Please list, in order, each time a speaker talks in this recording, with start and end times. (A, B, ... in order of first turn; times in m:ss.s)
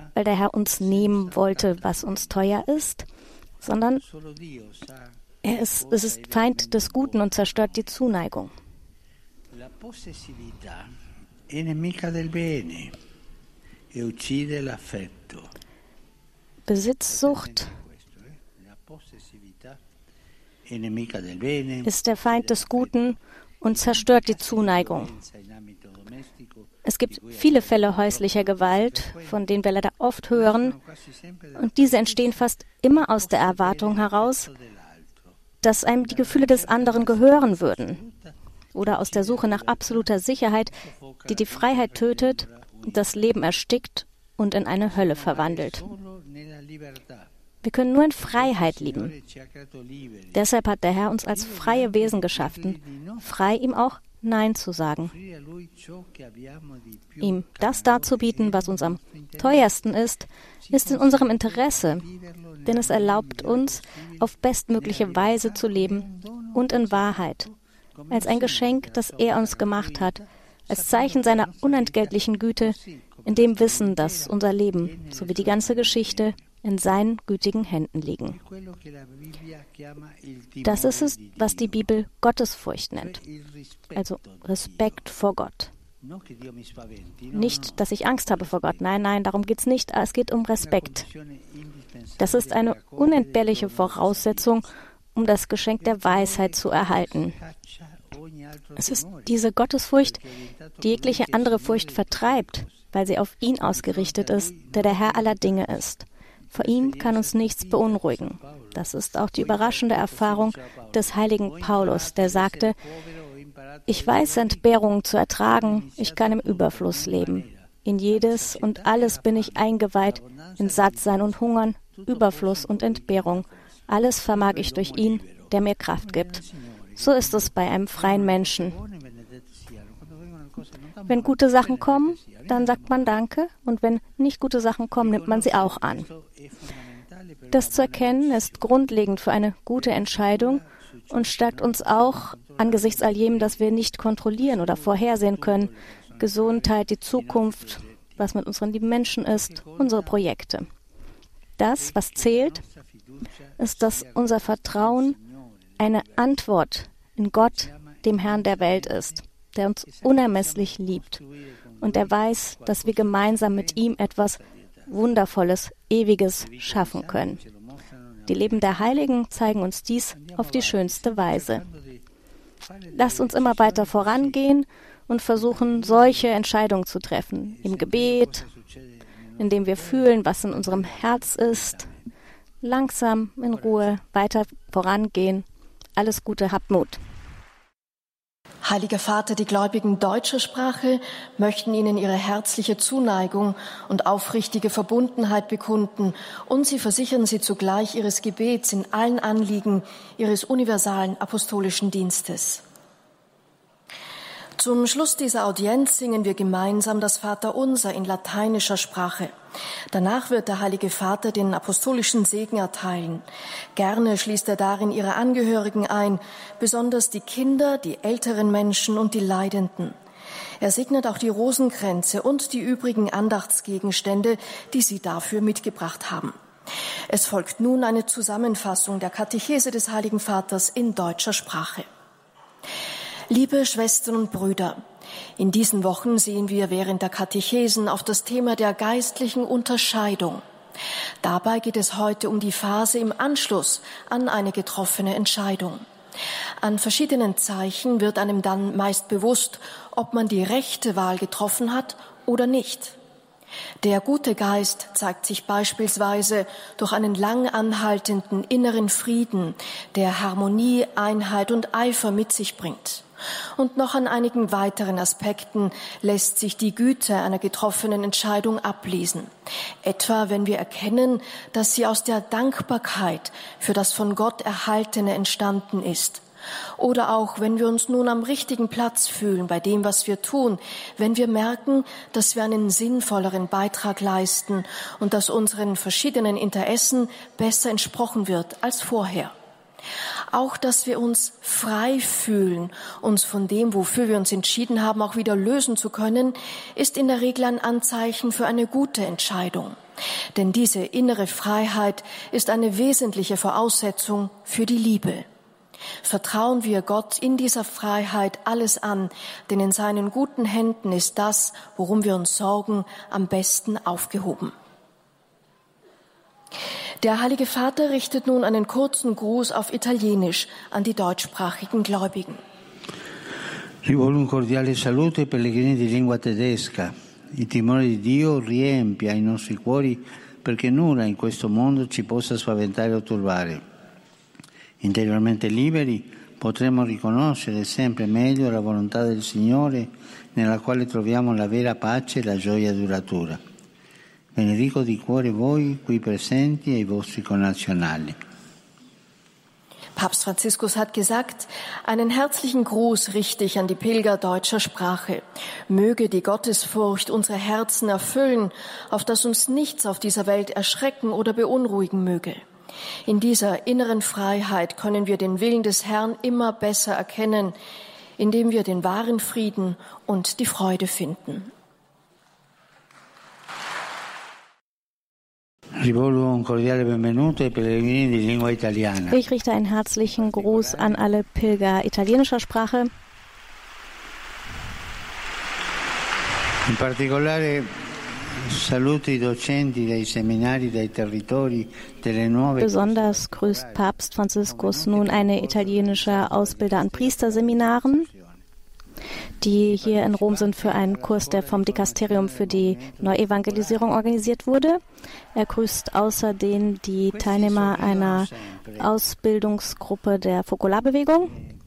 0:00.1-0:03.1 A
0:00.9-0:01.8 B
0:03.6-0:04.0 A
0:04.2-0:05.0 B
0:05.4-0:08.5 A
0:05.9-0:07.1 B
0:09.5-0:10.9 B
0:11.5-0:12.9 B
0:13.9-0:15.5 B
0:16.7-0:17.7 A
0:17.2-0:19.8 B
0:20.6-0:21.9 B
0:21.8-0:25.2 A
0:23.9-0:26.4 B
0:26.8-0:30.8 A
0:27.2-0:29.4 B
0:30.6-0:32.1 B
0:31.6-0:34.5 A
0:33.2-0:34.5 B
0:35.6-0:38.0 A
0:36.2-0:38.3 B
0:38.8-0:40.8 A
0:39.0-0:39.9 B
0:41.2-0:43.1 B
0:41.3-0:45.9 A
0:45.0-0:47.2 B
0:47.6-0:49.1 A
0:49.1-0:49.6 B
0:50.3-0:55.1 A
0:51.8-0:52.8 B
0:55.2-0:57.2 B
0:57.2-1:02.1 A
0:57.8-0:58.9 B
1:00.7-1:03.7 B
1:02.6-1:07.5 A
1:04.8-1:06.9 B
1:08.0-1:10.2 B
1:08.1-1:18.4 A
1:10.8-1:12.8 B
1:13.4-1:14.2 B
1:14.9-1:16.2 B
1:18.5-1:21.5 B
1:20.6-1:23.2 A
1:23.9-1:25.7 A
1:26.0-1:27.8 B
1:27.3-1:31.1 A
1:30.6-1:34.5 B
1:32.2-1:37.4 A
1:35.9-1:37.4 B
1:38.1-1:39.2 B
1:38.8-1:40.2 A
1:40.8-1:42.4 B
1:40.8-1:52.8 A
1:43.8-1:45.4 B
1:46.8-1:48.7 B
1:49.4-1:50.9 B
1:51.4-1:52.7 B
1:53.9-2:06.4 A
1:54.0-1:54.6 B
1:55.8-1:57.5 B
1:58.3-1:59.6 B
2:00.1-2:01.1 B
2:02.0-2:03.2 B
2:04.6-2:05.4 B
2:06.1-2:06.4 B
2:07.0-2:08.8 A
2:08.0-2:12.8 B
2:11.1-2:16.1 A
2:15.0-2:16.1 B
2:16.9-2:18.4 B
2:17.5-2:30.7 A
2:21.4-2:23.0 B
2:25.4-2:26.6 B
2:31.6-2:32.6 A
2:32.3-2:32.6 B
2:33.6-2:35.2 A
2:35.8-2:41.2 A
2:41.8-2:47.4 A
2:46.6-2:47.3 B
2:48.3-2:51.6 A
2:50.3-2:51.6 B
2:52.9-2:58.5 A
2:53.2-2:54.2 B
2:57.6-2:58.6 B
2:59.4-3:01.9 A
2:59.5-3:00.0 B
3:00.9-3:01.8 B
3:02.6-3:05.4 A
3:06.0-3:07.0 A
3:08.6-3:22.6 C
3:24.6-3:29.3 C
3:29.9-3:40.0 C
3:40.6-3:46.4 C
3:47.1-3:51.9 C
3:53.3-3:54.8 C
3:55.4-4:00.4 C
4:01.2-4:05.8 C
4:06.6-4:13.0 C
4:13.8-4:23.0 C
4:23.6-4:29.3 C
4:29.8-4:36.2 C
4:36.8-4:49.3 C
4:50.3-4:59.8 C
5:00.4-5:05.2 C
5:06.0-5:14.5 C
5:17.0-5:22.4 C
5:23.8-5:33.6 B
5:34.8-5:43.4 B
5:44.4-5:48.2 B
5:50.0-6:02.4 C
6:03.0-6:07.6 C
6:08.2-6:11.5 C
6:15.8-6:19.2 B
6:19.1-6:22.9 A
6:20.4-6:20.9 B
6:26.6-6:33.8 B
6:32.6-6:38.1 A
6:34.5-6:38.4 B
6:39.4-6:44.8 A
6:39.7-6:43.8 B
6:45.4-6:51.4 A
6:47.1-6:48.9 B